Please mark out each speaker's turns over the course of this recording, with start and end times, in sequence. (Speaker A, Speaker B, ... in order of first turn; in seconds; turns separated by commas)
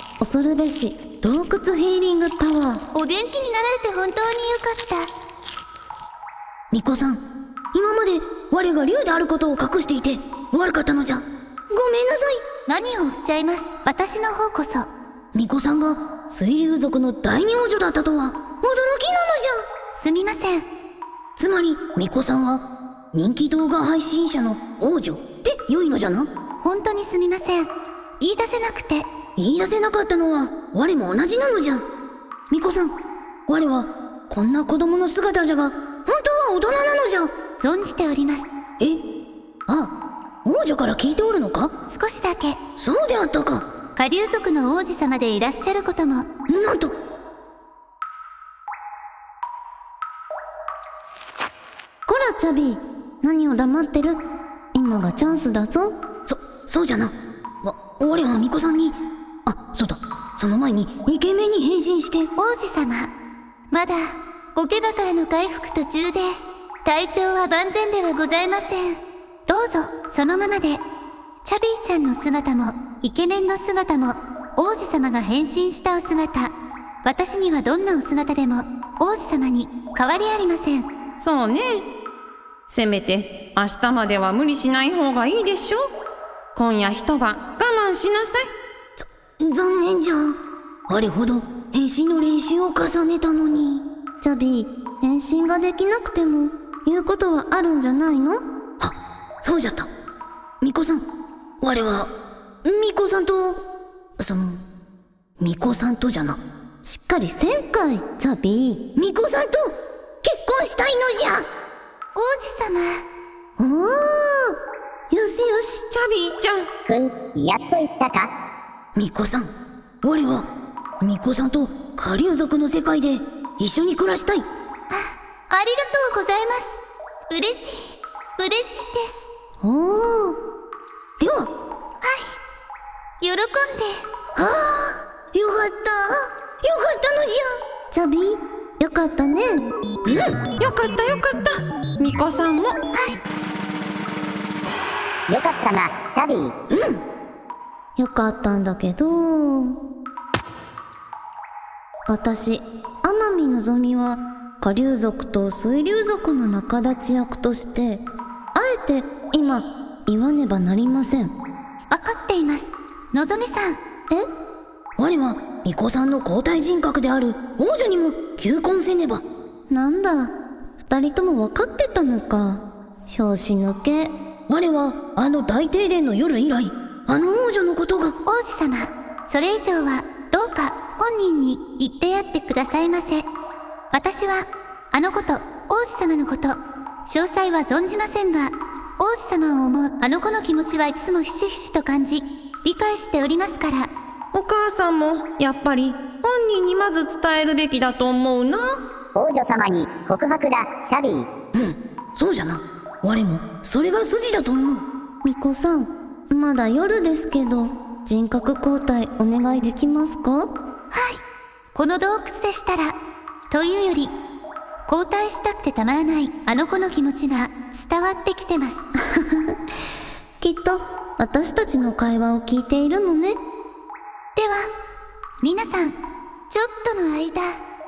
Speaker A: 0.2-2.8, Speaker B: 2.9-5.1, Speaker C: 6.7-12.4, Speaker B: 12.7-14.9, Speaker C: 15.3-19.6, Speaker B: 19.9-20.7, Speaker C: 21.4-26.3, Speaker B: 26.6-29.1, Speaker C: 29.4-31.8, Speaker C: 32.5-32.9, Speaker C: 33.5-37.3, Speaker B: 37.6-38.5, Speaker C: 39.7-39.9, Speaker C: 40.4-41.7, Speaker B: 41.9-42.6, Speaker C: 42.8-43.6, Speaker B: 44.0-46.3, Speaker C: 46.5-46.9, Speaker A: 52.1-54.2, Speaker A: 54.7-56.0, Speaker C: 56.2-62.3, Speaker B: 62.4-63.1, Speaker B: 63.7-66.3, Speaker B: 66.8-70.8, Speaker B: 71.4-76.5, Speaker B: 77.0-80.9, Speaker D: 81.2-81.9, Speaker D: 82.7-85.9, Speaker D: 86.5-88.5, Speaker C: 89.0-90.4, Speaker C: 90.9-93.8, Speaker A: 94.2-98.4, Speaker C: 98.8-99.9, Speaker C: 100.6-101.0, Speaker C: 101.6-102.1, Speaker C: 102.6-103.6, Speaker C: 104.2-104.6, Speaker C: 105.4-106.4, Speaker A: 106.8-108.8, Speaker C: 109.0-111.5, Speaker B: 112.2-113.0, Speaker A: 113.6-114.3, Speaker A: 115.1-115.8, Speaker D: 115.9-116.7, Speaker E: 116.9-118.3, Speaker C: 119.0-119.5, Speaker C: 120.0-120.5, Speaker C: 121.0-124.5, Speaker B: 124.9-129.3, Speaker A: 129.7-129.9, Speaker C: 129.7-130.3, Speaker C: 131.2-131.5, Speaker B: 132.0-132.4, Speaker B: 133.2-133.9, Speaker C: 134.3-137.6, Speaker A: 137.9-139.7, Speaker C: 140.1-140.4, Speaker D: 140.6-142.8, Speaker B: 142.9-143.2, Speaker E: 145.3-146.5, Speaker C: 146.7-147.0, Speaker A: 148.0-149.8, Speaker A: 152.1-161.3, Speaker B: 161.9-163.8, Speaker C: 165.0-169.2, Speaker A: 169.7-174.1, Speaker C: 174.5-178.2, Speaker B: 178.2-183.3, Speaker B: 183.9-193.9, Speaker D: 194.3-198.8, Speaker E: 199.2-201.3, Speaker C: 201.5-204.8, Speaker A: 205.2-210.5, Speaker B: 210.9-211.2, Speaker B: 211.7-213.0, Speaker B: 213.5-214.2, Speaker B: 214.9-218.8, Speaker A: 219.2-219.5, Speaker A: 220.4-223.4, Speaker B: 224.4-224.7, Speaker B: 225.4-226.0, Speaker B: 226.5-227.5